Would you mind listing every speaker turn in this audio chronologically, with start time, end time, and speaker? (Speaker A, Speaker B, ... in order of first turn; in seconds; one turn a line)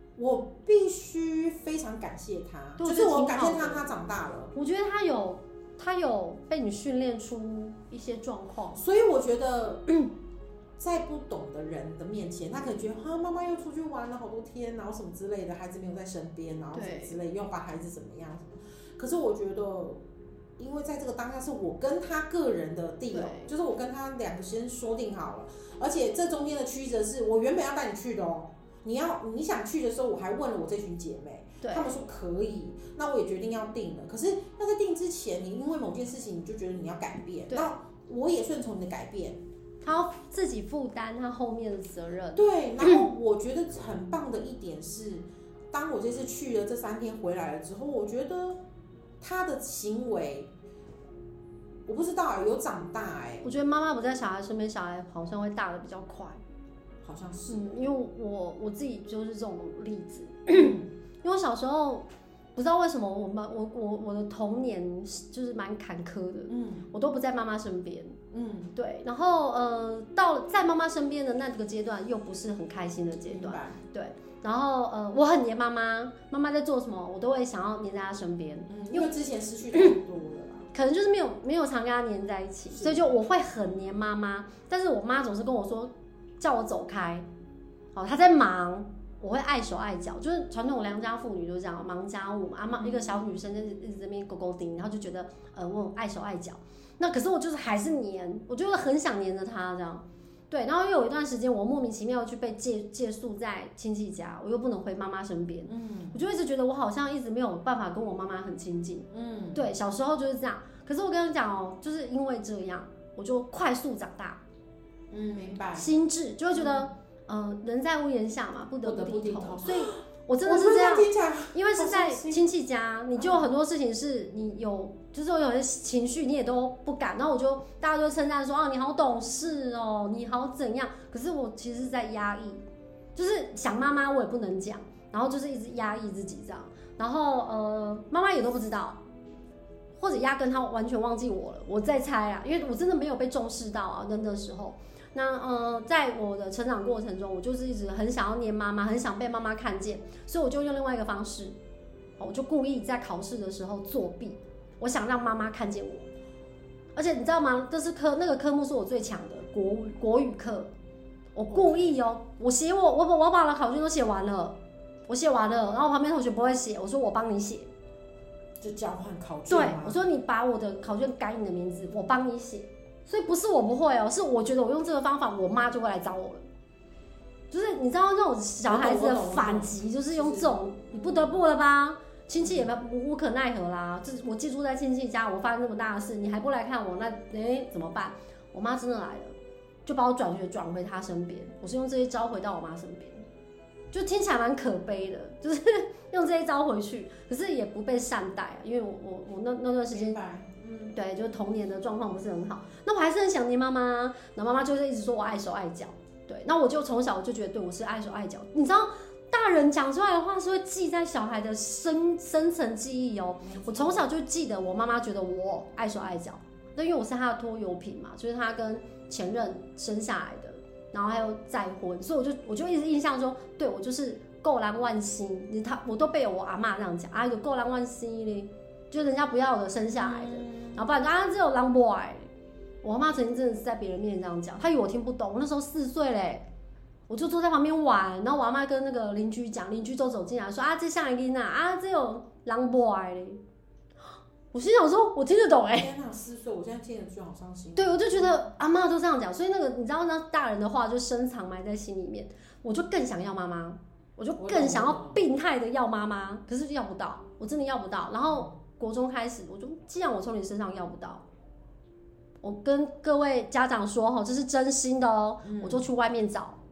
Speaker A: 0.1-4.5
Speaker B: 2.8-3.9
Speaker B: 4.5-8.8
Speaker A: 8.7-9.9
Speaker A: 10.8-20.0
Speaker B: 16.7-17.2
Speaker A: 20.6-39.4
Speaker B: 23.1-23.5
Speaker B: 31.6-31.9
Speaker B: 39.8-43.0
Speaker A: 42.3-48.6
Speaker A: 49.2-50.5
Speaker A: 51.9-53.5
Speaker B: 53.4-56.4
Speaker A: 57.0-57.7
Speaker B: 57.5-68.2
Speaker A: 60.5-60.9
Speaker A: 66.5-66.9
Speaker A: 68.3-68.7
Speaker B: 68.8-79.1
Speaker A: 73.1-73.8
Speaker A: 78.7-80.7
Speaker B: 80.7-87.2
Speaker A: 82.7-83.0
Speaker B: 87.9-114.4
Speaker A: 92.7-93.1
Speaker A: 105.7-106.2
Speaker A: 109.1-109.7
Speaker A: 115.1-115.9
Speaker B: 115.8-132.6
Speaker A: 116.5-116.9
Speaker A: 118.8-122.5
Speaker A: 123.2-123.5
Speaker B: 133.1-139.0
Speaker B: 140.0-151.6
Speaker B: 152.2-156.1
Speaker B: 156.9-160.7
Speaker B: 161.3-164.6
Speaker A: 161.5-161.9
Speaker B: 165.1-167.7
Speaker A: 168.6-170.0
Speaker B: 169.5-176.4
Speaker B: 177.5-189.3
Speaker A: 178.6-181.3
Speaker A: 182.4-182.7
Speaker B: 189.8-193.2
Speaker B: 193.9-200.2
Speaker A: 199.9-200.9
Speaker B: 200.9-232.3
Speaker A: 213.4-214.1
Speaker A: 230.0-230.8
Speaker B: 232.8-236.4
Speaker B: 237.1-243.4
Speaker B: 244.5-245.9
Speaker A: 245.7-248.3
Speaker B: 247.8-261.2
Speaker A: 254.4-255.2
Speaker B: 262.4-266.6
Speaker A: 265.4-265.8